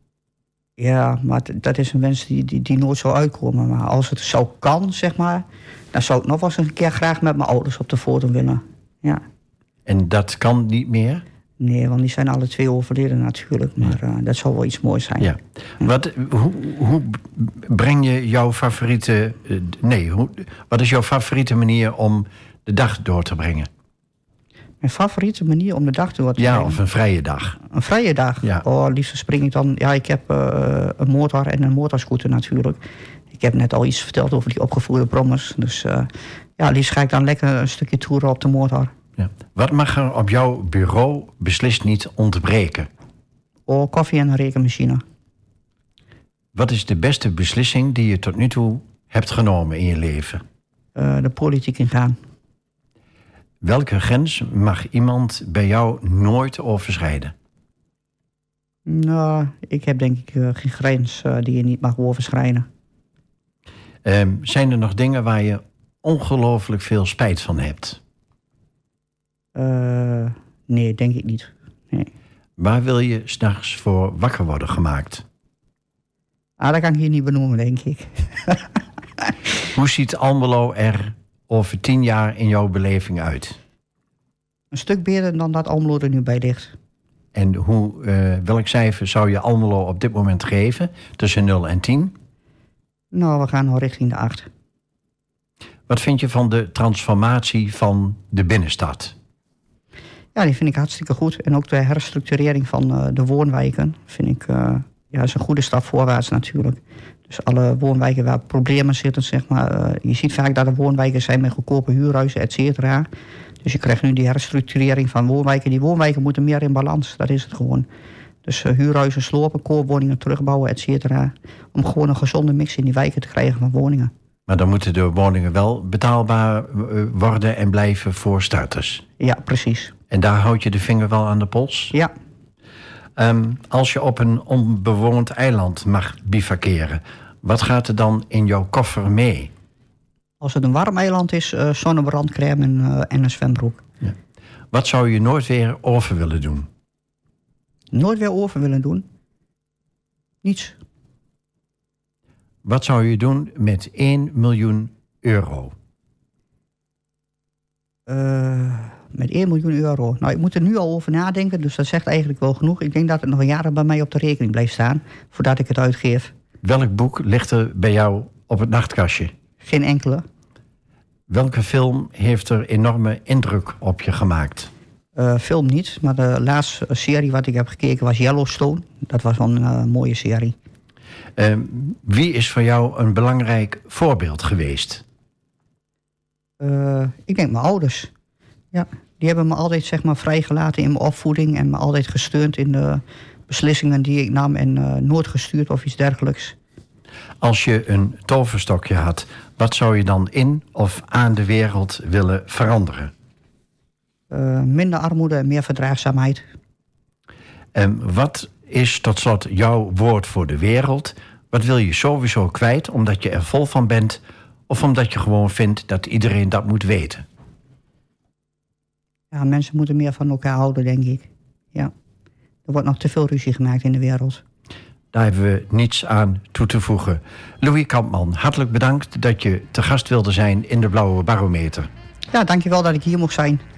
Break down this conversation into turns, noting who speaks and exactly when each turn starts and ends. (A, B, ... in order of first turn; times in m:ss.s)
0:00.8-0:09.2 A
0:09.8-0:11.2 B
0:11.6-0:15.3 A
0:15.2-0:23.7 B
0:24.8-0:26.8 A
0:26.4-0:27.6 B
0:27.7-0:32.8 A
0:33.3-0:38.9 A
0:39.2-0:42.9 B
0:43.7-0:45.0 A
0:46.5-0:50.4 B
0:51.0-0:52.2 A
0:53.6-0:57.3 B
0:58.8-1:02.6 A
1:04.0-1:08.0 B
1:09.5-1:12.1 A
1:12.6-1:15.2 B
1:16.6-1:18.8 A
1:19.7-1:23.6 B
1:24.7-1:26.7 A
1:27.3-1:32.1 B
1:33.1-1:34.5 A
1:35.9-1:39.1 B
1:40.3-1:53.1 A
1:53.6-1:57.9 A
1:58.4-2:04.1 A
2:04.5-2:09.0 B
2:09.2-2:09.9 A
2:10.1-2:11.9 B
2:13.2-2:19.5 B
2:20.4-2:23.8 A
2:24.7-2:26.7 B
2:27.9-2:29.0 A
2:30.4-2:30.8 A
2:32.6-2:35.7 B
2:38.1-2:46.3 A
2:46.6-2:49.3 B
2:49.6-2:50.2 A
2:51.3-2:54.7 B
2:55.2-3:00.6 A
3:01.4-3:05.0 B
3:06.6-3:08.1 A
3:08.7-3:16.6 A
3:17.4-3:23.1 B
3:24.3-3:26.4 A
3:27.7-3:37.2 B
3:39.3-3:41.9 A
3:42.7-3:44.4 A
3:45.1-3:51.9 B
3:52.3-3:53.6 A